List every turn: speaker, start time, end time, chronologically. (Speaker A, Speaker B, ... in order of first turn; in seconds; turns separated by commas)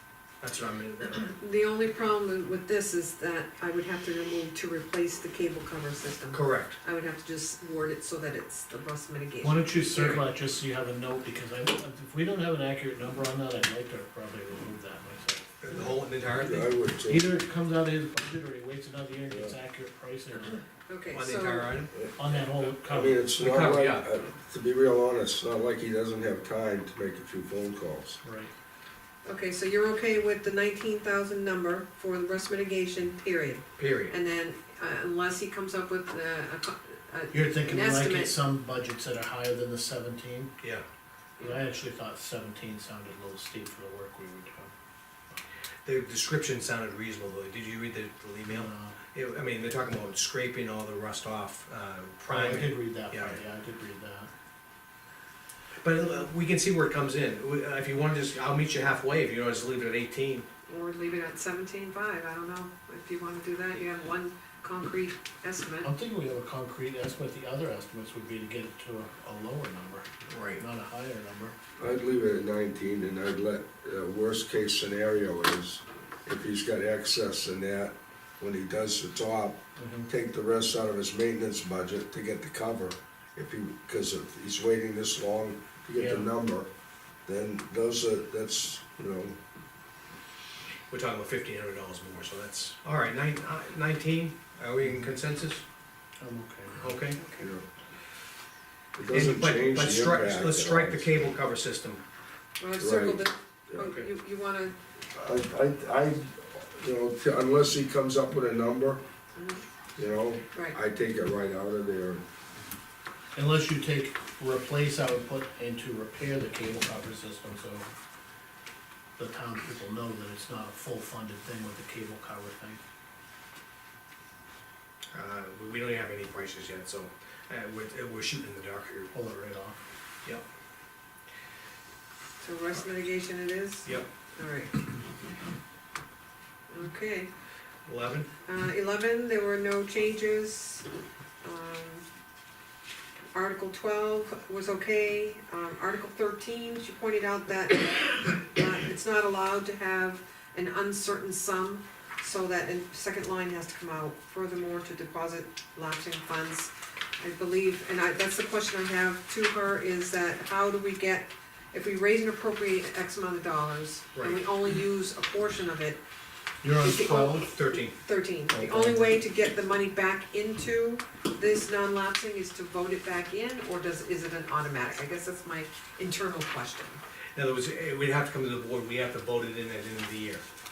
Speaker A: 0.4-1.3, Speaker B: 1.3-10.2, Speaker A: 6.3-6.8, Speaker C: 9.4-15.5, Speaker A: 15.6-16.7, Speaker D: 15.7-17.4, Speaker C: 17.1-20.6, Speaker D: 19.3-19.6, Speaker B: 20.9-21.8, Speaker A: 21.1-21.9, Speaker C: 22.1-23.3, Speaker D: 22.8-28.2, Speaker A: 23.4-24.1, Speaker C: 28.2-28.5, Speaker B: 29.2-38.4, Speaker A: 33.8-34.1, Speaker C: 37.3-40.5, Speaker C: 41.4-44.7, Speaker A: 45.8-53.4, Speaker C: 48.5-49.0, Speaker C: 52.3-54.3, Speaker A: 55.8-60.5, Speaker B: 60.7-65.9, Speaker C: 65.8-71.5, Speaker A: 70.3-70.6, Speaker D: 71.8-86.7, Speaker C: 79.8-80.1, Speaker C: 86.0-86.3, Speaker D: 87.2-89.4, Speaker A: 90.9-95.6, Speaker C: 96.2-97.0, Speaker A: 96.7-97.2, Speaker B: 97.2-97.5, Speaker D: 97.4-97.6, Speaker D: 99.0-101.1, Speaker A: 99.1-102.0, Speaker B: 102.6-104.8, Speaker D: 102.8-104.0, Speaker D: 105.1-109.0, Speaker B: 109.3-109.6, Speaker D: 110.0-112.2, Speaker C: 113.3-117.9, Speaker C: 119.2-122.8, Speaker A: 125.1-129.1, Speaker C: 129.1-129.8, Speaker B: 132.4-134.8, Speaker B: 136.7-137.3, Speaker A: 137.8-138.3, Speaker B: 138.4-140.8, Speaker B: 141.4-142.0, Speaker B: 143.3-166.0, Speaker A: 164.1-164.4, Speaker C: 166.6-167.5, Speaker B: 166.7-177.0, Speaker A: 167.4-167.9, Speaker C: 168.5-169.2, Speaker A: 177.3-180.4